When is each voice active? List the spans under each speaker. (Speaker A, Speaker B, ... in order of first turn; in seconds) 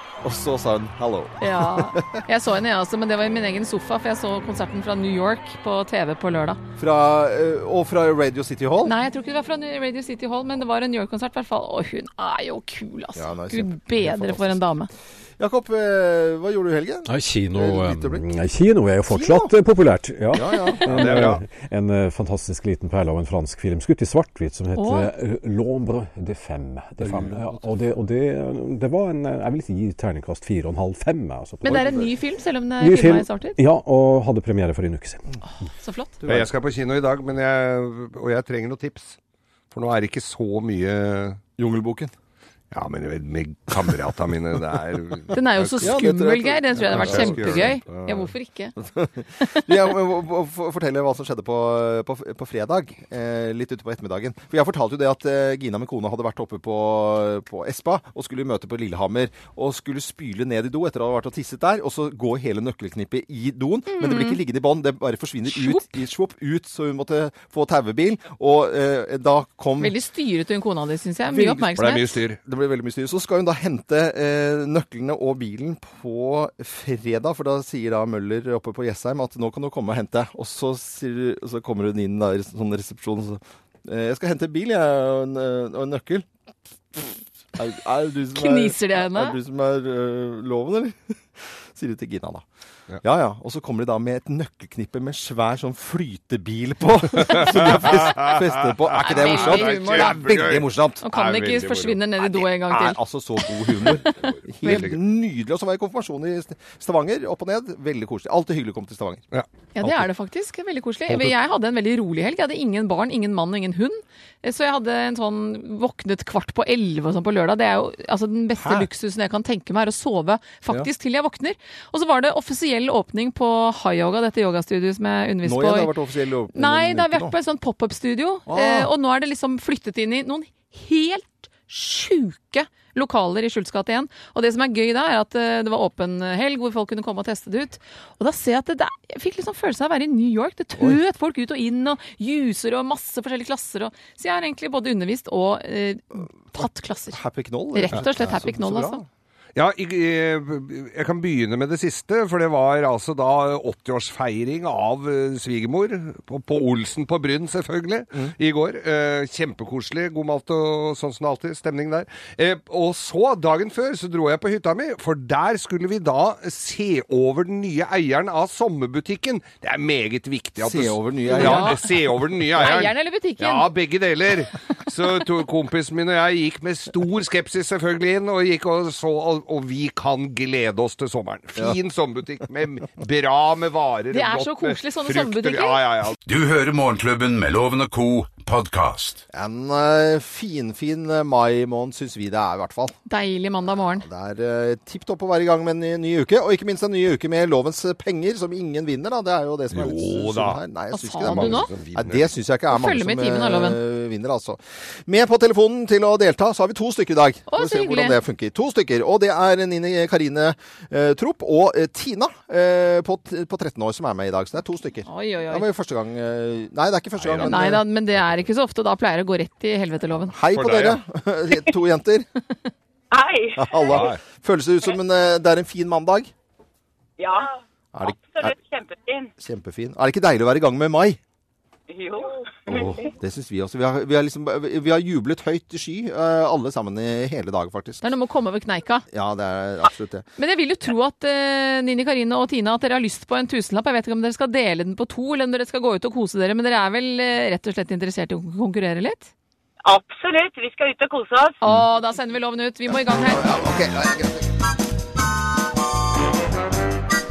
Speaker A: 0.2-2.2, 6.8-8.9, 13.2-14.6, 15.4-18.2, 19.1-19.5, 20.3-21.3, 41.6-42.1, 45.8-70.0, 71.3-71.8, 72.4-86.3, 86.9-92.5, 93.0-101.0, 102.2-109.2, 118.6-118.9, 125.4-127.4, 128.5-128.9, 146.5-149.1, 170.6-171.8, 189.3-193.0, 193.7-217.8, 220.3-222.3, 223.6-226.3, 227.9-228.6, 229.4-231.2, 232.7-238.0, 239.1-240.3, 253.0-254.5
Speaker B: 1.4-6.6, 8.8-14.9, 24.8-25.1, 31.6-33.6, 35.8-36.1, 45.3-48.8, 49.4-49.7, 63.9-64.4, 65.5-65.9, 69.8-72.2, 88.3-89.4, 99.0-100.5, 101.0-104.9, 109.8-125.9, 126.5-147.2, 147.7-149.0, 171.3-171.8, 172.6-173.7, 184.1-185.8, 193.1-194.1, 200.9-201.7, 202.7-203.8, 207.5-208.2, 215.1-215.7, 217.4-220.4, 238.0-239.1, 240.4-249.3, 251.6-253.6
Speaker C: 17.1-32.1, 32.8-35.2
Speaker D: 20.9-21.4, 36.2-39.2, 39.7-41.4, 42.7-45.9, 46.8-47.8, 71.8-72.4, 97.2-102.0, 104.5-105.0, 149.6-186.2, 199.7-200.6, 201.2-202.3, 217.2-217.6, 220.5-221.0, 223.9-224.2
Speaker E: 186.2-189.2
Speaker F: 223.1-223.8, 227.2-227.5, 228.1-229.3, 231.9-232.4, 249.8-251.6